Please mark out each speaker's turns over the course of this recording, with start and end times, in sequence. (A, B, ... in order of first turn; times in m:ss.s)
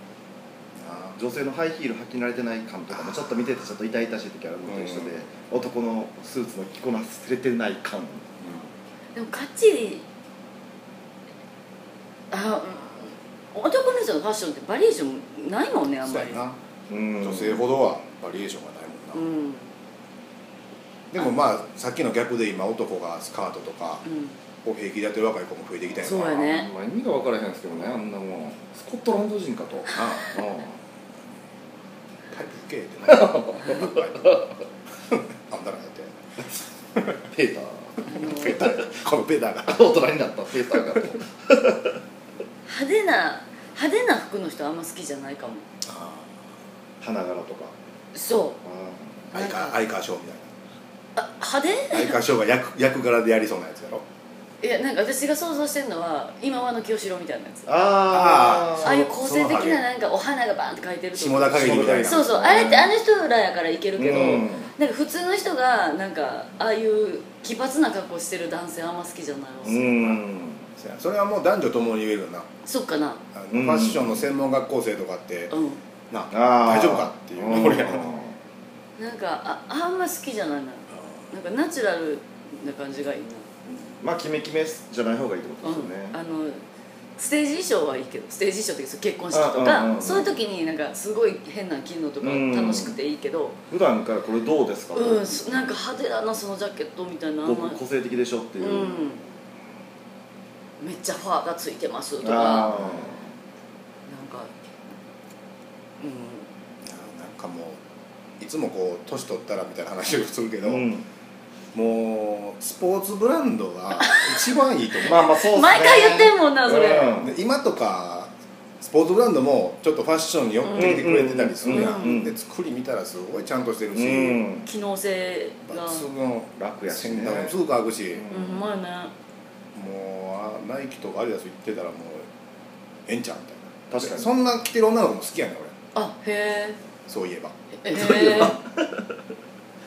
0:00.8-0:01.1 A
0:01.2-0:08.3 B
0:02.9-0:03.2 A
0:04.7-0:05.2 A
0:08.4-0:08.7 A
0:09.1-0:10.0 C
0:12.3-0:16.4 C
0:16.0-0:16.6 A
0:16.9-0:17.6 B
0:17.2-0:19.2 A
0:19.1-0:19.7 C
0:21.1-0:24.0 A
0:24.0-0:24.3 C
0:24.6-0:26.5 A
0:26.0-0:26.7 C
0:26.3-0:30.7 B
0:29.9-0:30.3 A
0:32.3-0:34.4 A
0:33.1-0:34.5 B
0:35.1-0:36.2 A
0:37.3-0:38.0 B
0:38.0-0:38.6 C
0:38.2-0:39.9 A
0:39.7-0:42.0 B
0:42.7-0:45.6 C
0:45.8-0:46.4 A
0:47.0-0:47.7 B
0:48.1-0:48.6 C
0:48.6-0:49.2 B
0:49.3-0:50.5 A
0:49.3-0:49.8 C
0:51.2-0:52.2 C
0:51.9-0:54.0 A
0:54.6-0:57.7 C
0:57.7-0:59.0 B
0:58.1-0:59.8 A
0:58.8-1:09.9 C
1:01.1-1:02.3 A
1:01.5-1:02.9 B
1:04.0-1:04.7 B
1:09.6-1:10.7 B
1:09.7-1:10.2 A
1:10.8-1:12.5 A
1:12.6-1:13.2 C
1:13.3-1:15.5 A
1:13.5-1:14.2 B
1:15.5-1:15.8 C
1:16.1-1:18.1 A
1:16.3-1:18.3 B
1:19.0-1:23.5 C
1:24.0-1:26.2 B
1:25.6-1:26.6 C
1:27.2-1:33.6 C
1:29.3-1:30.3 B
1:32.2-1:33.0 B
1:33.7-1:35.4 B
1:34.9-1:37.8 C
1:37.4-1:39.0 B
1:38.6-1:39.2 C
1:40.8-1:42.7 C
1:42.2-1:43.2 B
1:44.1-1:44.5 C
1:46.0-1:46.5 C
1:46.8-1:47.8 A
1:48.4-1:50.9 A
1:50.6-1:51.0 B
1:51.7-1:55.3 A
1:54.0-1:54.4 C
1:55.0-1:57.2 C
1:55.0-1:57.3 B
1:57.2-2:04.4 A
2:00.6-2:01.1 C
2:00.7-2:02.3 B
2:01.6-2:02.2 C
2:03.9-2:04.6 B
2:04.6-2:06.0 C
2:05.7-2:08.2 A
2:06.6-2:07.6 B
2:08.1-2:08.6 B
2:08.3-2:09.1 C
2:09.7-2:12.3 A
2:13.0-2:15.7 A
2:13.9-2:14.3 B
2:15.9-2:16.8 C
2:17.1-2:18.5 A
2:17.8-2:18.6 C
2:18.0-2:18.6 B